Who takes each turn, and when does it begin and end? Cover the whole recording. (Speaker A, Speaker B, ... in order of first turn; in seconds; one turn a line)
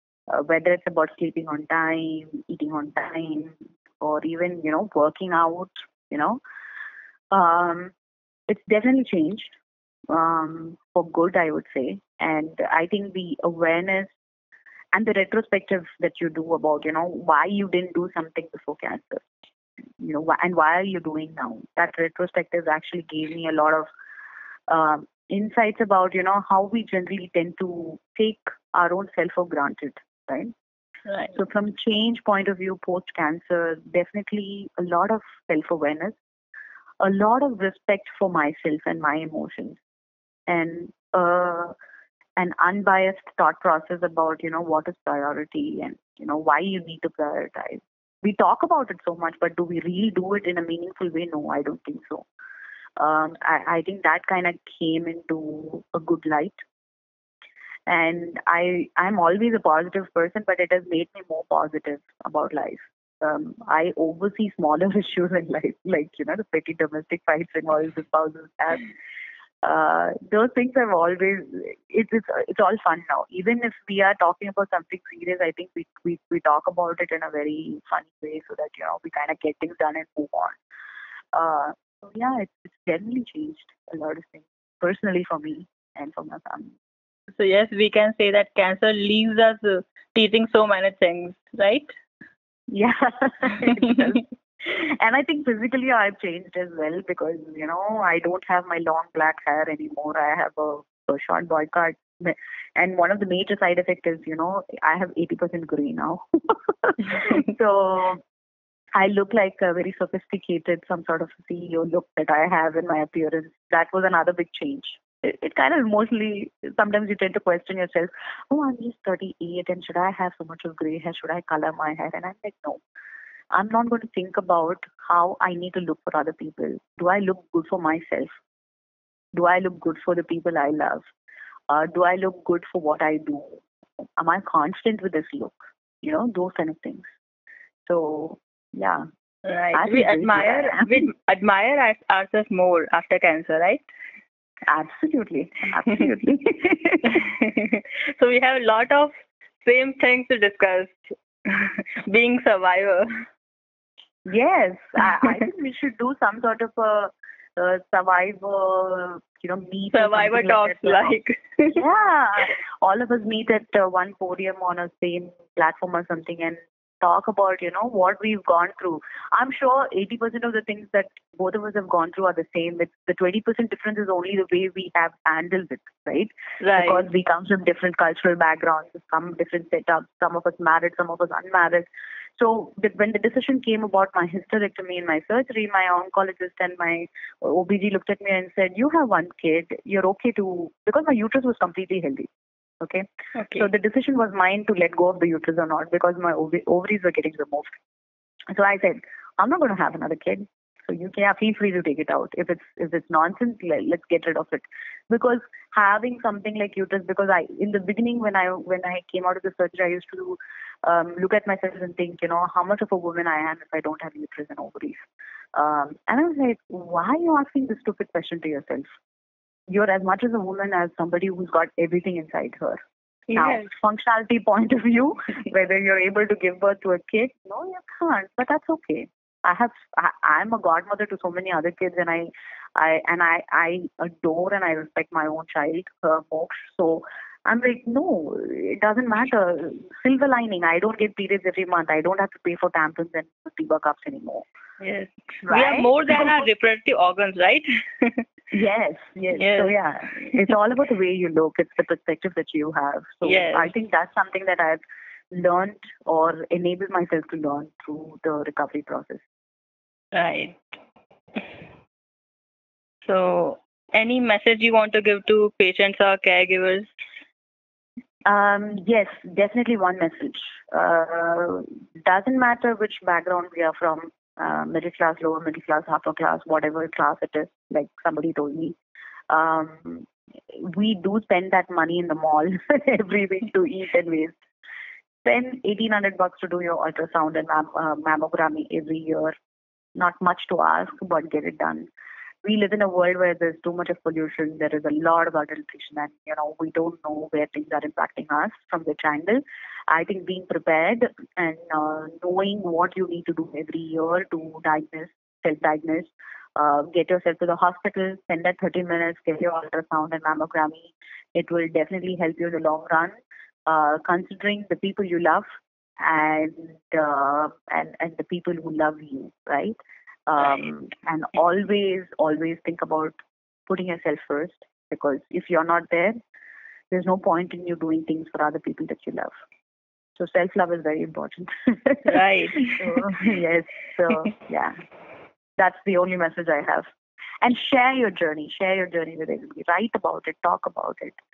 Speaker A: 0.3-6.4
Speaker A: 7.3-7.9
Speaker A: 8.5-9.5
Speaker A: 10.1-14.1
Speaker A: 14.9-19.2
Speaker A: 20.0-23.9
Speaker A: 24.7-30.5
Speaker B: 31.1-31.4
Speaker A: 31.3-36.2
Speaker A: 37.0-39.8
Speaker A: 40.5-41.7
Speaker A: 42.4-52.2
Speaker A: 53.0-56.6
Speaker A: 57.9-68.9
Speaker A: 69.6-80.6
Speaker A: 81.3-86.7
Speaker B: 87.3-91.9
Speaker A: 92.7-108.2
Speaker A: 109.0-122.8
Speaker A: 123.5-128.3
Speaker A: 129.3-131.1
Speaker A: 131.7-133.6
Speaker A: 134.2-137.1
Speaker A: 137.9-139.1
Speaker B: 139.4-143.9
Speaker A: 139.7-141.1
Speaker A: 144.7-147.2
Speaker B: 147.1-153.1
Speaker A: 154.3-161.2
Speaker B: 159.9-161.8
Speaker A: 161.7-192.3
Speaker B: 176.6-177.1
Speaker A: 192.8-197.8
Speaker B: 193.4-193.7
Speaker A: 198.5-218.9
Speaker A: 219.7-222.8
Speaker B: 223.3-223.7
Speaker A: 223.4-244.5
Speaker B: 244.8-248.3
Speaker A: 245.4-246.3
Speaker A: 248.5-259.3
Speaker B: 249.3-249.8
Speaker B: 253.2-253.7
Speaker B: 260.1-260.6
Speaker B: 263.0-266.9
Speaker A: 268.3-278.8
Speaker A: 279.3-284.4
Speaker A: 285.2-289.4
Speaker A: 290.0-291.9
Speaker A: 292.4-315.5
Speaker A: 316.0-319.8
Speaker A: 320.3-323.2
Speaker A: 323.7-326.2
Speaker A: 326.9-329.3
Speaker A: 330.2-334.8
Speaker B: 332.1-333.1
Speaker A: 335.6-336.9
Speaker A: 337.4-341.2